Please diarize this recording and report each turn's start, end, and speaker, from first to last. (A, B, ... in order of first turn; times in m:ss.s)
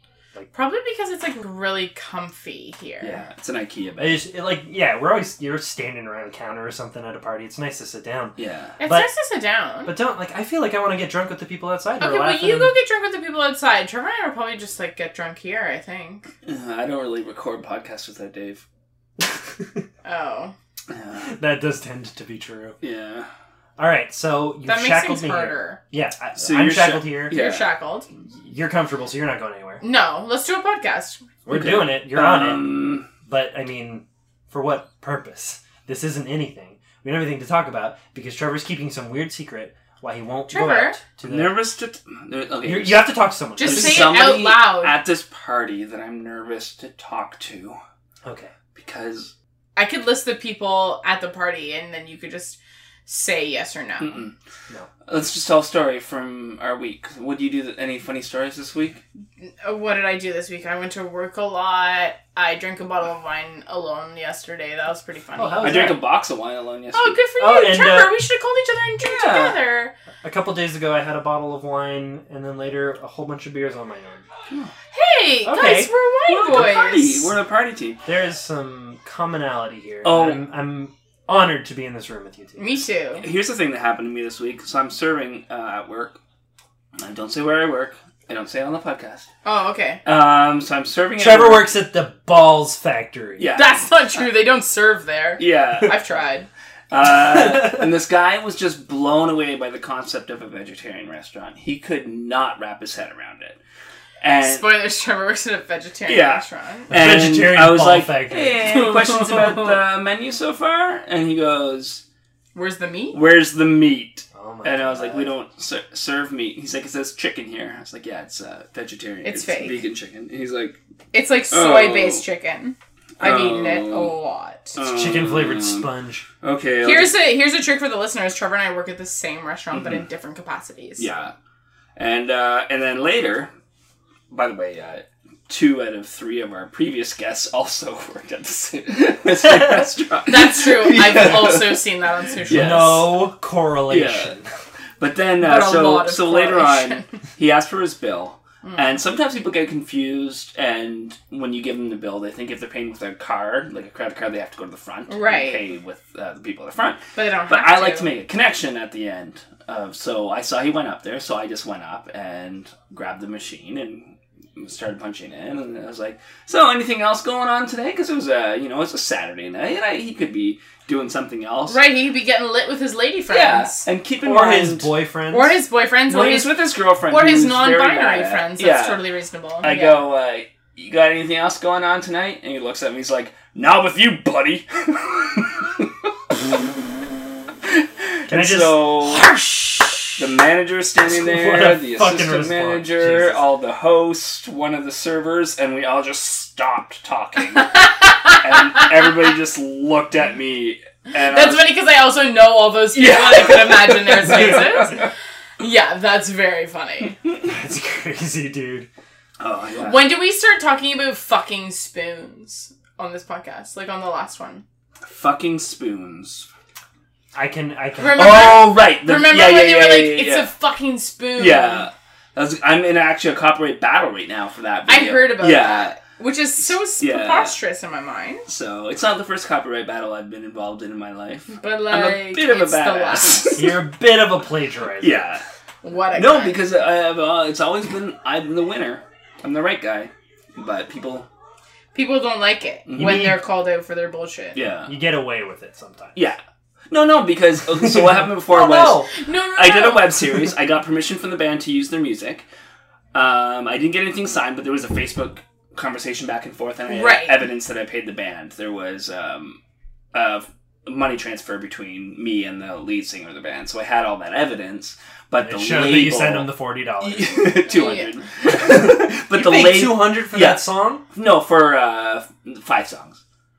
0:00.5-0:03.2 A
0:03.0-0:04.2 B
0:04.0-0:09.1 C
0:08.4-0:08.8 B
0:08.8-0:09.9 A
0:09.8-0:12.7 C
0:12.0-0:16.3 A
0:16.4-0:18.6 B
0:20.0-0:20.5 A
0:20.9-0:21.3 B
0:21.2-0:22.8 C
0:22.8-0:23.3 B
0:23.8-0:27.4 C
0:24.6-0:25.8 A
0:26.4-0:27.7 B
0:27.3-0:28.1 A
0:28.4-0:29.8 C
0:29.8-0:31.2 A
0:31.4-0:41.6 C
0:31.5-0:33.1 B
0:40.5-0:41.0 A
0:41.2-0:47.8 B
0:42.6-0:44.3 C
0:43.6-0:45.0 A
0:48.2-0:48.5 C
0:48.7-0:49.3 B
0:49.8-0:54.2 A
0:54.0-0:54.3 B
0:55.1-0:59.0 B
0:59.4-1:06.0 A
1:05.4-1:06.0 C
1:05.6-1:07.2 B
1:06.9-1:09.9 A
1:07.4-1:08.2 C
1:09.0-1:09.6 B
1:10.2-1:14.2 C
1:14.9-1:17.3 A
1:15.4-1:15.9 C
1:16.3-1:18.0 B
1:18.0-1:22.8 C
1:20.0-1:20.4 B
1:22.6-1:23.2 A
1:23.2-1:26.2 B
1:27.0-1:29.2 B
1:29.4-1:30.0 A
1:30.0-1:31.8 B
1:31.2-1:33.5 C
1:33.4-1:33.9 B
1:33.5-1:36.5 A
1:35.4-1:36.0 B
1:36.9-1:43.6 B
1:37.5-1:37.8 C
1:44.2-1:44.8 B
1:44.4-1:46.9 A
1:46.1-1:52.0 B
1:46.9-1:48.6 C
1:52.5-1:53.2 A
1:53.1-2:00.8 B
1:54.3-1:55.4 C
1:59.2-1:59.8 A
2:01.1-2:04.8 A
2:01.5-2:02.2 B
2:03.2-2:04.1 B
2:04.8-2:05.9 B
2:04.8-2:06.2 C
2:06.4-2:07.2 B
2:06.8-2:11.1 A
2:09.7-2:10.1 B
2:11.0-2:11.3 B
2:12.0-2:13.5 B
2:14.3-2:21.8 B
2:20.3-2:23.0 A
2:22.4-2:23.2 B
2:22.5-2:24.5 C
2:23.9-2:24.3 B
2:25.0-2:51.8 B
2:25.4-2:27.1 A
2:28.6-2:29.0 A
2:35.1-2:35.6 A
2:37.2-2:38.1 A
2:51.7-2:53.9 A
2:53.3-2:54.9 B
2:54.2-2:55.6 C
2:55.3-3:00.0 A
2:56.0-2:59.0 B
2:59.6-3:06.1 B
3:07.7-3:09.3 B
3:08.3-3:10.2 C
3:10.2-3:17.7 B
3:11.0-3:13.4 C
3:17.6-3:18.4 A
3:18.4-3:21.7 B
3:21.2-3:27.2 A
3:22.9-3:25.1 B
3:27.4-3:28.9 C
3:29.4-3:30.2 B
3:29.8-3:34.6 A
3:35.0-3:36.5 B
3:37.3-3:38.5 C
3:38.0-3:41.9 A
3:38.1-3:40.5 B
3:41.4-3:46.0 B
3:44.9-3:48.4 A
3:46.6-3:47.6 B
3:48.4-3:53.8 B
3:51.6-3:53.8 A
3:53.5-3:55.3 C
3:55.0-3:55.4 B
3:55.8-3:56.6 A
3:56.1-4:01.3 B
4:01.9-4:04.6 A
4:02.9-4:03.4 B
4:03.0-4:03.4 C
4:04.5-4:04.9 B
4:04.8-4:06.2 C
4:06.1-4:12.4 B
4:08.5-4:10.2 A
4:08.6-4:09.1 C
4:13.1-4:19.6 B
4:16.9-4:17.4 A
4:20.1-4:33.2 B
4:25.4-4:27.9 C
4:27.6-4:28.2 A
4:28.5-4:31.0 C